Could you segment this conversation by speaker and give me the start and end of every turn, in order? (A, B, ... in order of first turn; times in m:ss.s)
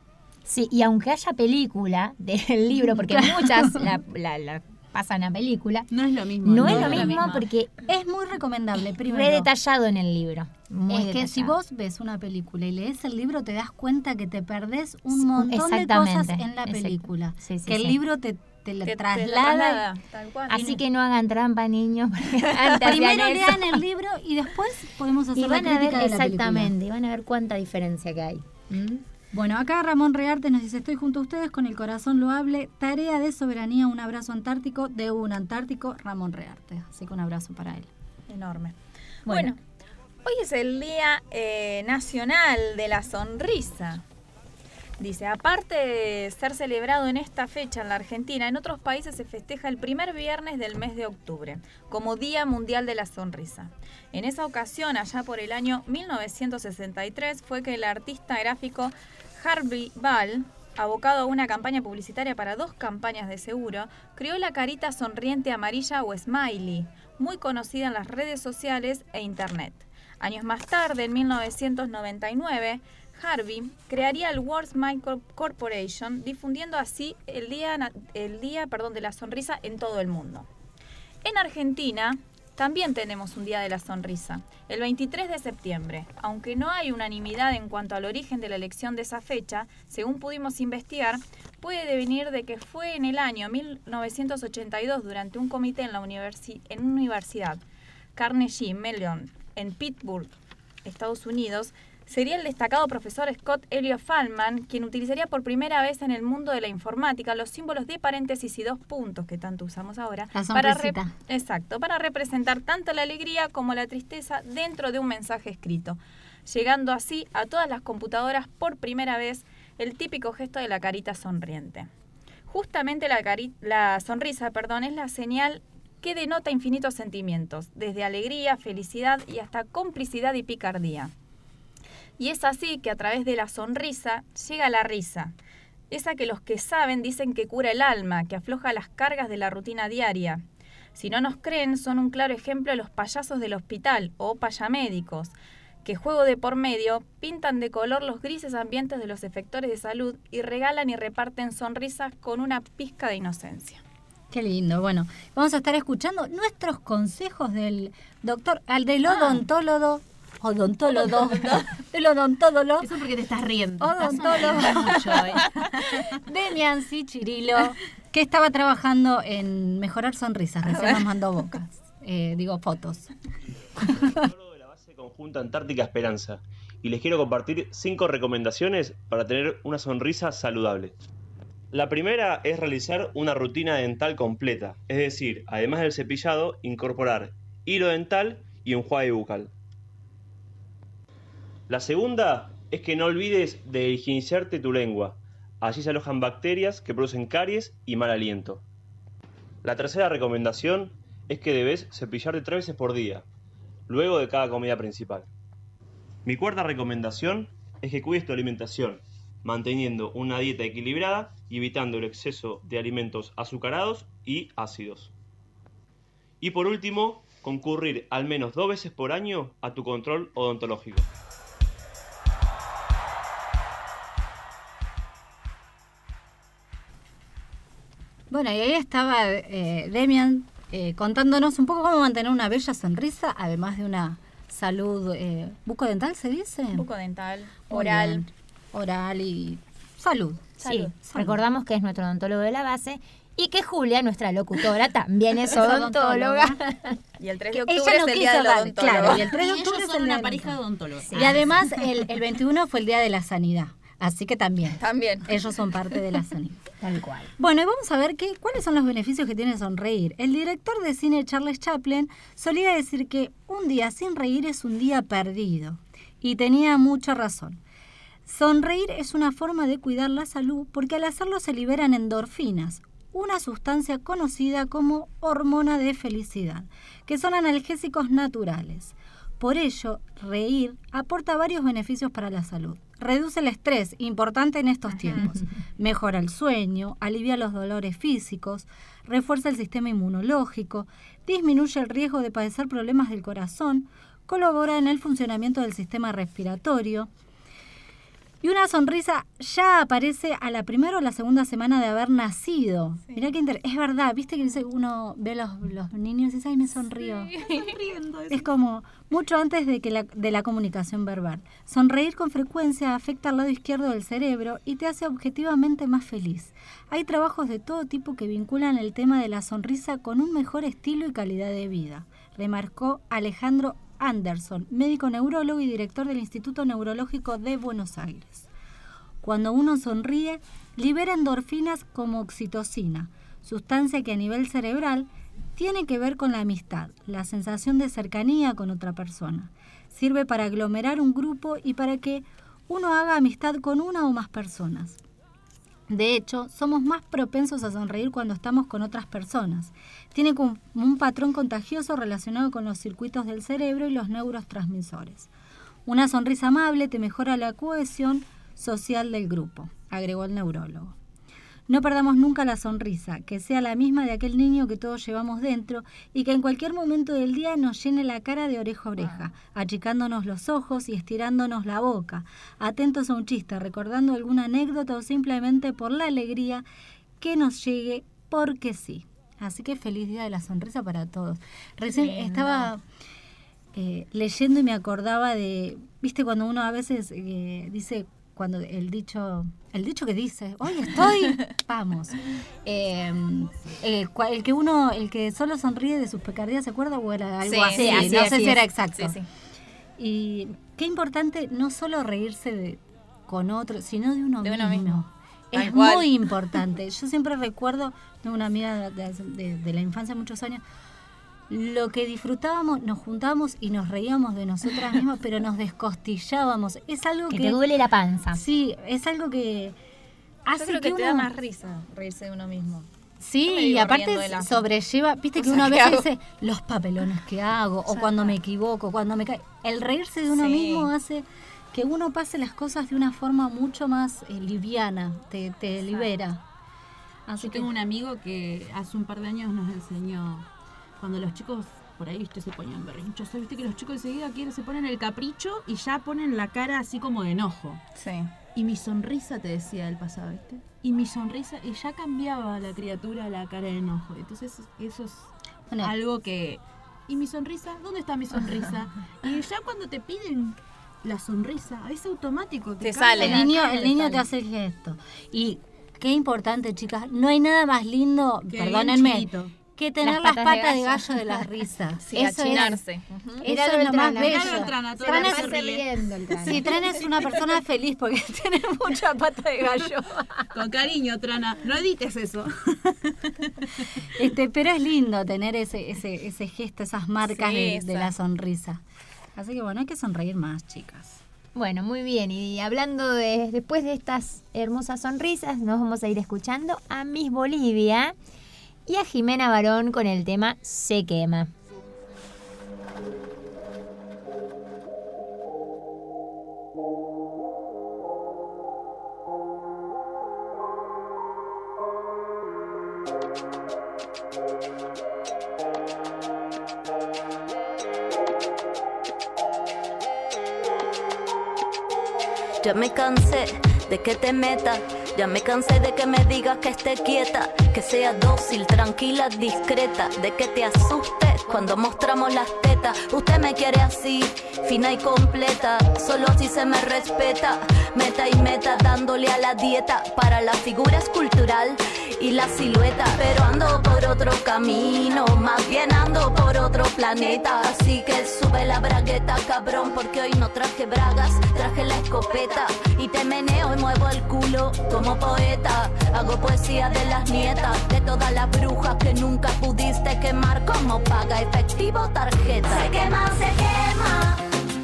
0:00.4-0:05.9 A
0:03.1-0:03.7 B
0:05.9-0:07.4 C
0:06.4-0:07.8 A
0:06.6-0:07.2 B
0:07.9-0:09.5 B
0:09.0-0:11.6 A
0:10.9-0:19.8 B
0:15.1-0:18.0 A
0:18.8-0:20.8 D
0:20.5-0:23.8 A
0:22.7-0:26.7 B
0:25.4-0:29.0 A
0:29.3-0:37.9 B
0:38.3-0:38.7 D
0:39.2-0:39.5 A
0:39.2-0:39.6 D
0:40.2-0:44.0 D
0:45.0-1:20.5 D
1:21.2-1:37.6 D
1:38.2-1:40.3 D
1:40.8-2:01.9 D
1:50.3-1:51.1 B
2:02.5-2:11.1 D
2:12.2-2:15.3 D
2:15.9-2:20.4 D
2:20.9-2:25.3 D
2:25.8-2:33.8 D
2:34.3-2:42.9 B
2:41.2-2:41.6 C
2:42.8-2:45.9 C
2:43.8-2:45.4 B
2:46.2-2:53.1 B
2:50.7-2:51.0 D
2:53.9-3:00.9 E
3:01.7-3:09.5 E
3:11.7-3:18.6 E
3:19.6-3:23.2 E
3:23.9-3:25.3 E
3:26.2-3:35.1 E
3:36.4-3:41.1 E
3:48.3-3:56.8 B
3:56.7-3:58.2 D
3:57.7-4:00.5 B
4:00.6-4:00.9 D
4:00.6-4:06.9 A
4:01.0-4:01.4 B
4:05.5-4:06.6 B
4:07.2-4:09.3 D
4:07.5-4:10.6 B
4:09.2-4:11.4 C
4:11.0-4:11.4 A
4:11.1-4:16.6 B
4:14.8-4:15.3 D
4:16.8-4:17.3 A
4:17.4-4:27.6 B
4:28.2-4:57.1 B
4:58.4-5:07.3 B
5:07.3-5:07.7 D
5:07.4-5:08.4 C
5:08.3-5:28.5 B
5:29.2-5:45.0 B
5:45.9-5:55.3 B
5:55.8-6:00.9 B
6:01.7-6:16.6 B
6:17.2-6:22.8 B
6:22.3-6:22.6 D
6:23.7-6:39.2 B
6:31.2-6:31.4 D
6:37.4-6:39.2 D
6:37.7-6:38.6 A
6:40.0-6:50.6 B
6:44.4-6:45.0 D
6:45.5-6:46.1 D
6:51.5-6:57.6 B
6:57.3-6:58.4 A
6:58.3-6:59.8 B
7:00.4-7:01.3 B
7:00.6-7:02.9 D
7:03.2-7:16.4 B
7:03.5-7:04.6 D
7:05.4-7:06.0 D
7:07.9-7:08.3 D
7:10.3-7:10.9 D
7:17.3-7:17.7 B
7:17.4-7:20.4 C
7:21.0-7:27.8 C
7:27.9-7:28.3 D
7:28.5-7:44.2 C
7:42.8-7:43.5 D
7:43.2-7:52.8 B
7:48.5-7:49.5 C
7:50.0-7:51.3 A
7:52.0-7:53.1 D
7:52.5-7:56.7 A
7:53.4-7:55.6 B
7:53.5-7:55.8 C
7:56.4-8:00.2 B
7:56.5-7:57.0 C
8:00.5-8:03.5 C
8:04.1-8:08.8 B
8:07.2-8:08.1 D
8:09.4-8:11.2 B
8:11.5-8:18.1 A
8:18.8-8:21.5 A
8:42.6-9:24.4 F